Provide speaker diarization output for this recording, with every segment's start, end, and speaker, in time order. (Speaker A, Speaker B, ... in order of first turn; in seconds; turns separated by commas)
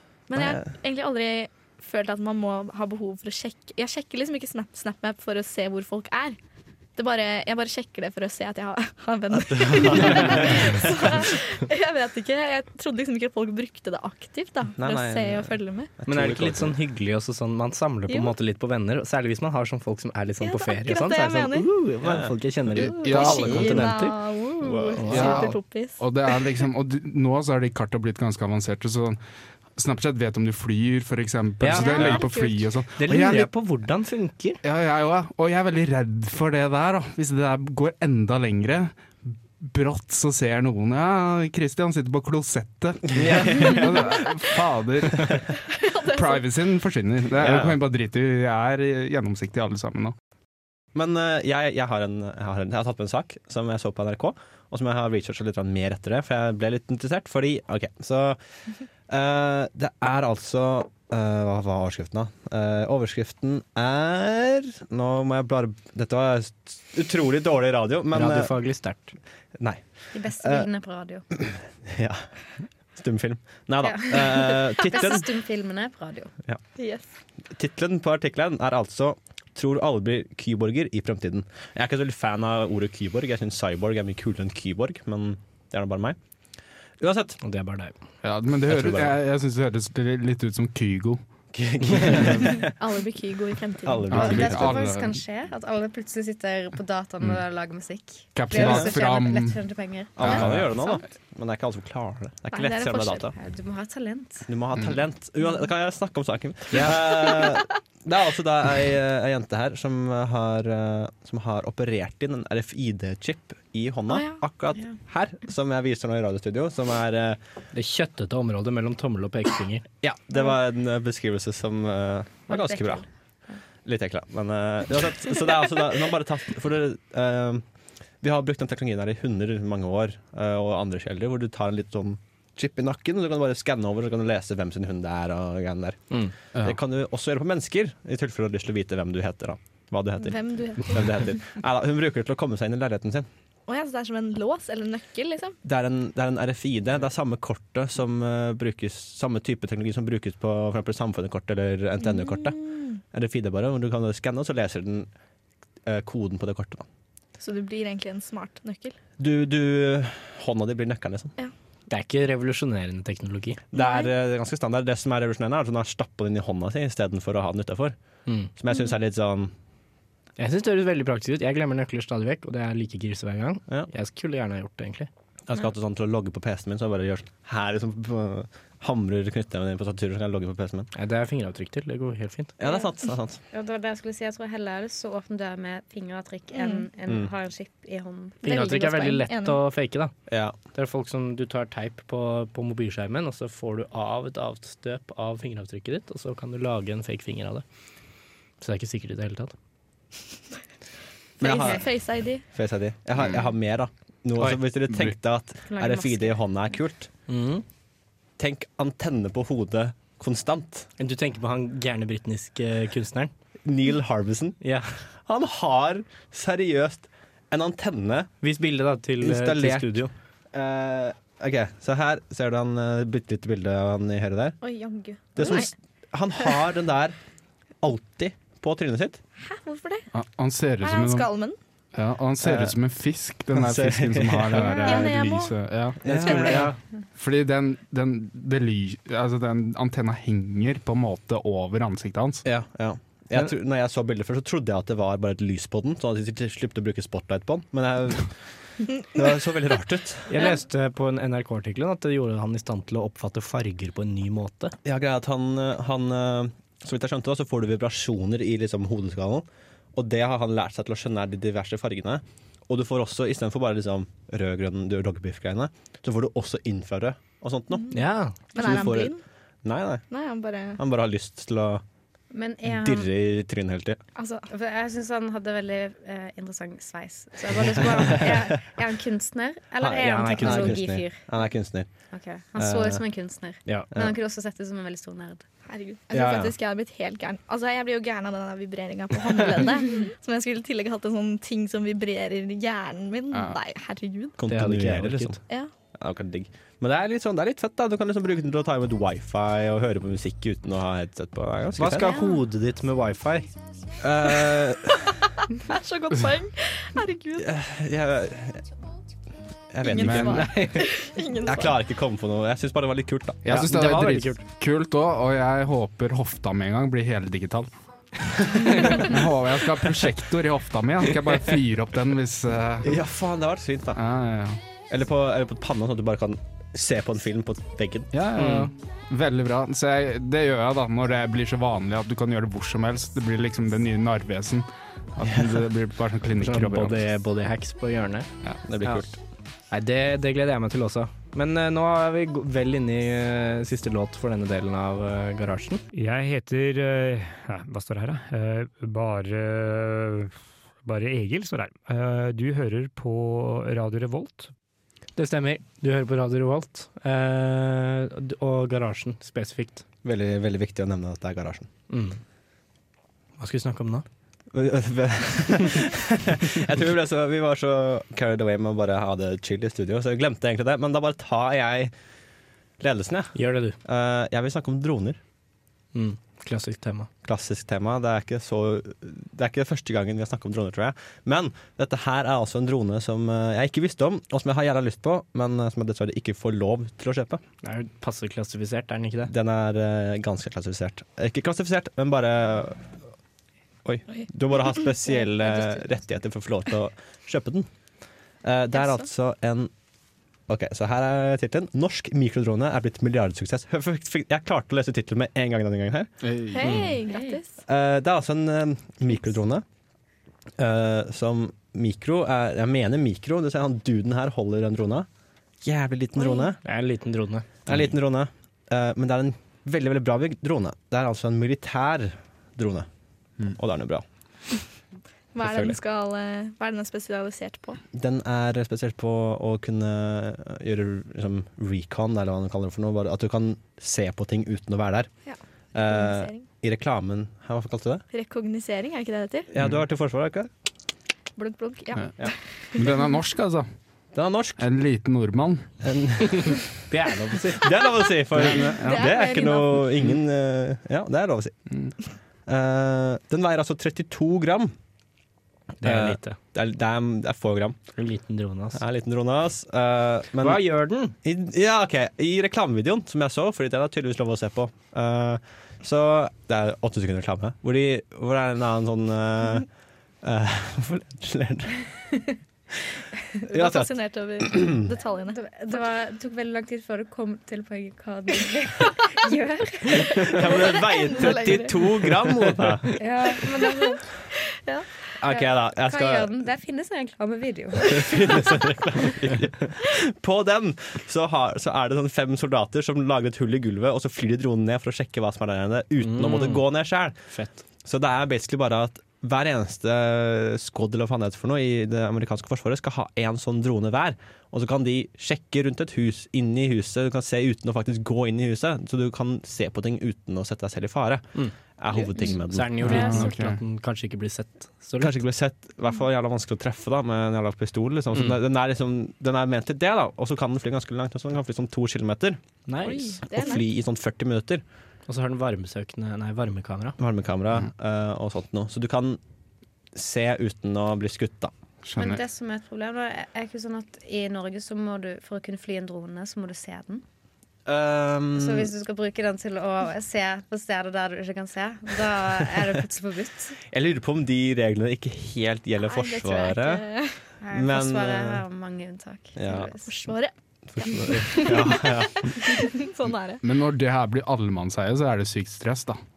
Speaker A: 0.3-6.4, Speaker B: 0.3-0.6, Speaker A: 7.0-15.9, Speaker B: 9.5-10.9, Speaker B: 14.8-16.7, Speaker C: 16.1-24.2, Speaker A: 18.1-18.3, Speaker A: 20.4-21.7, Speaker B: 22.0-22.3, Speaker D: 22.8-23.9, Speaker A: 23.0-26.5, Speaker B: 24.6-25.2, Speaker C: 25.0-25.5, Speaker D: 25.1-29.2, Speaker D: 29.8-33.5, Speaker C: 31.6-32.3, Speaker A: 31.8-32.5, Speaker C: 33.0-34.6, Speaker D: 34.6-50.1, Speaker C: 43.1-43.9, Speaker A: 45.6-46.5, Speaker B: 47.3-47.8, Speaker B: 50.9-58.4, Speaker B: 59.1-68.5, Speaker C: 68.1-69.2, Speaker B: 69.6-70.7, Speaker E: 70.1-71.2, Speaker B: 71.3-72.2, Speaker B: 72.9-75.3, Speaker E: 73.8-76.3, Speaker A: 76.8-77.0, Speaker B: 77.5-86.2, Speaker B: 87.0-87.4, Speaker C: 87.4-88.0, Speaker D: 88.2-91.2, Speaker B: 88.7-89.2, Speaker B: 91.5-92.7, Speaker D: 92.0-92.3, Speaker A: 92.4-94.4, Speaker B: 93.8-94.8, Speaker D: 94.1-95.2, Speaker E: 94.1-100.3, Speaker D: 98.3-99.6, Speaker B: 98.5-98.9, Speaker B: 100.2-103.3, Speaker D: 100.2-100.7, Speaker A: 102.5-103.3, Speaker E: 103.3-104.5, Speaker B: 104.5-117.4, Speaker A: 114.1-114.4, Speaker C: 117.7-119.8, Speaker B: 120.0-123.0, Speaker E: 122.5-123.5, Speaker B: 123.8-127.6, Speaker B: 128.2-143.3, Speaker A: 140.2-141.2, Speaker A: 143.7-145.6, Speaker B: 145.6-155.1, Speaker A: 152.5-152.8, Speaker B: 155.8-156.9, Speaker A: 157.4-158.9, Speaker B: 159.2-161.3, Speaker C: 161.9-163.6, Speaker B: 163.7-167.9, Speaker A: 163.7-164.1, Speaker B: 168.6-169.5, Speaker C: 170.4-175.1, Speaker B: 175.5-180.9, Speaker C: 180.9-182.6, Speaker B: 182.6-183.4, Speaker E: 182.6-182.9, Speaker E: 183.5-188.4, Speaker A: 186.6-186.8, Speaker A: 188.4-189.6, Speaker C: 188.4-190.1, Speaker B: 190.3-190.6, Speaker C: 190.7-197.6, Speaker C: 198.6-199.5, Speaker B: 201.4-201.8, Speaker A: 201.4-202.4, Speaker E: 201.4-201.8, Speaker B: 202.5-207.1, Speaker E: 205.7-206.4, Speaker C: 207.3-207.6, Speaker B: 208.4-210.9, Speaker C: 211.0-213.3, Speaker B: 213.6-214.6, Speaker C: 214.6-215.0, Speaker B: 215.2-218.3, Speaker C: 218.4-220.1, Speaker B: 219.2-224.6, Speaker A: 224.6-225.7, Speaker B: 225.3-227.2, Speaker B: 227.8-229.2, Speaker A: 229.4-230.1, Speaker D: 230.1-231.3, Speaker A: 230.8-231.6, Speaker D: 231.9-236.1, Speaker B: 232.4-232.8, Speaker B: 233.5-235.1, Speaker A: 234.6-235.6, Speaker B: 236.0-236.7, Speaker C: 236.1-236.8, Speaker A: 236.3-236.7, Speaker D: 237.2-242.4, Speaker B: 242.4-248.3, Speaker B: 248.9-250.5, Speaker C: 250.3-254.7, Speaker B: 254.8-267.9, Speaker C: 267.9-269.1, Speaker A: 268.5-269.2, Speaker B: 268.6-269.1, Speaker B: 269.6-270.0, Speaker A: 270.1-270.8, Speaker B: 270.8-271.8, Speaker E: 272.3-273.1, Speaker B: 272.7-274.0, Speaker A: 274.1-274.5, Speaker E: 274.5-281.3, Speaker B: 277.7-278.4, Speaker B: 279.8-281.9, Speaker C: 280.1-280.8, Speaker E: 282.1-285.4, Speaker B: 282.6-283.0, Speaker A: 285.7-294.4, Speaker B: 286.1-286.5, Speaker B: 294.4-295.4, Speaker C: 294.5-295.4, Speaker B: 295.9-302.1, Speaker C: 301.8-303.5, Speaker B: 304.0-305.1, Speaker A: 305.5-307.5, Speaker B: 307.4-308.6, Speaker B: 309.7-310.5, Speaker A: 309.8-311.8, Speaker D: 310.0-310.5, Speaker C: 310.2-310.9, Speaker B: 311.4-313.6, Speaker D: 313.4-317.7, Speaker C: 313.5-314.4, Speaker D: 318.4-323.0, Speaker C: 318.5-319.0, Speaker B: 322.8-324.0, Speaker D: 323.9-324.6, Speaker B: 324.9-328.1, Speaker D: 328.1-337.0, Speaker C: 328.4-328.7, Speaker C: 336.4-338.3, Speaker B: 338.6-339.2, Speaker C: 339.7-345.8, Speaker F: 345.9-354.5, Speaker C: 355.1-359.8, Speaker B: 360.0-361.7, Speaker C: 361.9-362.2, Speaker C: 363.4-364.1, Speaker B: 364.5-371.9, Speaker B: 372.8-375.2, Speaker C: 373.3-373.8, Speaker C: 375.9-377.1, Speaker B: 377.2-387.4, Speaker C: 387.6-389.3, Speaker B: 389.3-392.9, Speaker B: 393.8-397.7, Speaker B: 398.4-399.7, Speaker B: 400.5-406.1, Speaker D: 406.2-406.8, Speaker A: 406.5-407.6, Speaker C: 406.6-406.9, Speaker E: 407.1-407.4, Speaker B: 407.6-409.6, Speaker B: 410.6-415.1, Speaker B: 415.6-416.6, Speaker A: 416.2-416.5, Speaker C: 416.6-417.6, Speaker B: 417.6-422.9, Speaker B: 423.5-424.0, Speaker A: 425.3-427.8, Speaker B: 425.4-425.8, Speaker B: 427.9-435.1, Speaker A: 435.3-436.4, Speaker B: 435.7-438.0, Speaker A: 438.1-439.5, Speaker B: 439.5-440.5, Speaker A: 441.4-442.9, Speaker D: 442.7-443.7, Speaker B: 444.1-444.6, Speaker D: 444.6-445.8, Speaker B: 445.8-446.7, Speaker C: 446.9-447.7, Speaker B: 447.6-451.5, Speaker D: 448.4-449.1, Speaker A: 448.7-449.9, Speaker B: 452.4-454.7, Speaker C: 455.8-456.4, Speaker B: 455.8-457.8, Speaker C: 457.9-458.8, Speaker B: 458.7-460.6, Speaker C: 460.4-461.1, Speaker B: 461.2-469.7, Speaker B: 470.2-471.9, Speaker A: 473.5-475.8, Speaker B: 473.5-474.8, Speaker E: 475.3-480.8, Speaker B: 480.2-483.0, Speaker A: 480.8-481.9, Speaker E: 483.0-484.1, Speaker A: 483.4-484.9, Speaker B: 485.2-486.3, Speaker E: 485.3-488.4, Speaker B: 487.9-497.1, Speaker C: 496.0-496.6, Speaker C: 497.3-497.6, Speaker B: 497.8-513.1, Speaker C: 512.5-515.2, Speaker D: 512.8-513.6, Speaker B: 515.0-522.4, Speaker C: 522.7-523.2, Speaker A: 522.8-523.6, Speaker B: 523.3-524.6, Speaker C: 525.1-527.0, Speaker B: 527.0-529.2, Speaker B: 529.9-531.5, Speaker D: 531.8-532.2, Speaker E: 532.0-537.0, Speaker B: 537.6-538.7, Speaker E: 538.3-543.6, Speaker B: 543.7-546.9, Speaker A: 545.8-547.3, Speaker E: 547.4-549.9, Speaker B: 547.5-548.4, Speaker B: 549.4-549.7, Speaker A: 549.9-553.4, Speaker B: 550.7-552.7, Speaker D: 553.4-556.0